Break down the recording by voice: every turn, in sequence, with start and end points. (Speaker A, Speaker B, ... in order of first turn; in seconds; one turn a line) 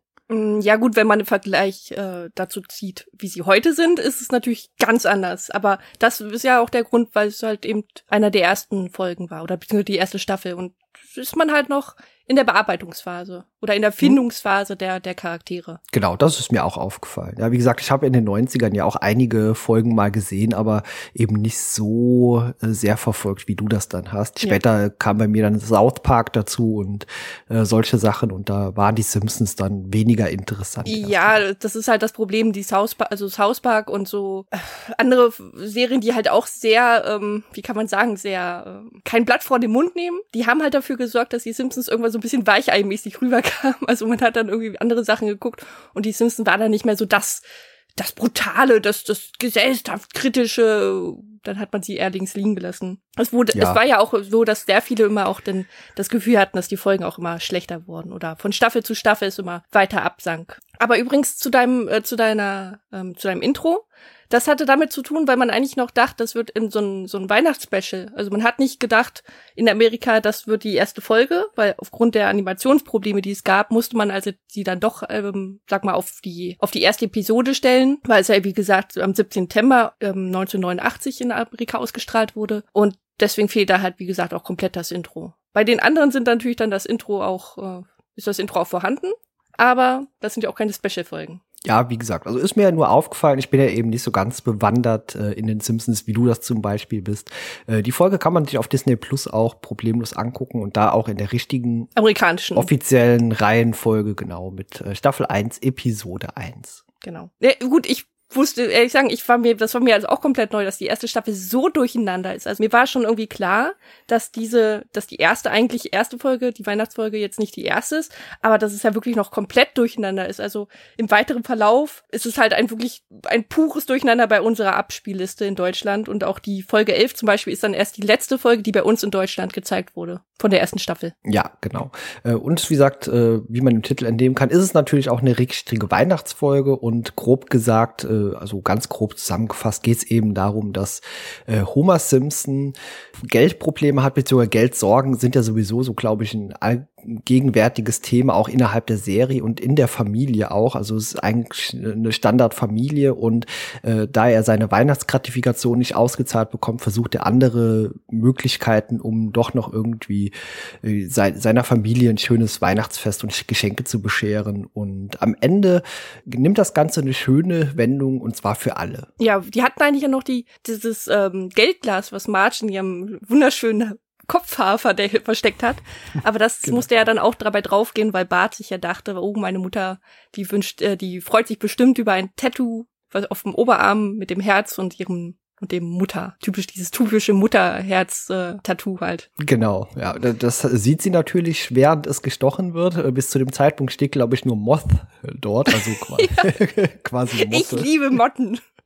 Speaker A: 0.3-15.8
Speaker B: 15.9-31.4
Speaker A: 30.9-47.4
Speaker A: 48.0-91.4
Speaker B: 53.5-53.8
Speaker B: 91.6-101.9
Speaker A: 101.9-102.7
Speaker B: 102.5-106.8
Speaker A: 107.0-131.1
Speaker B: 131.2-169.1
Speaker A: 169.2-189.3
Speaker B: 189.4-197.9
Speaker A: 195.7-196.6
Speaker A: 197.3-198.6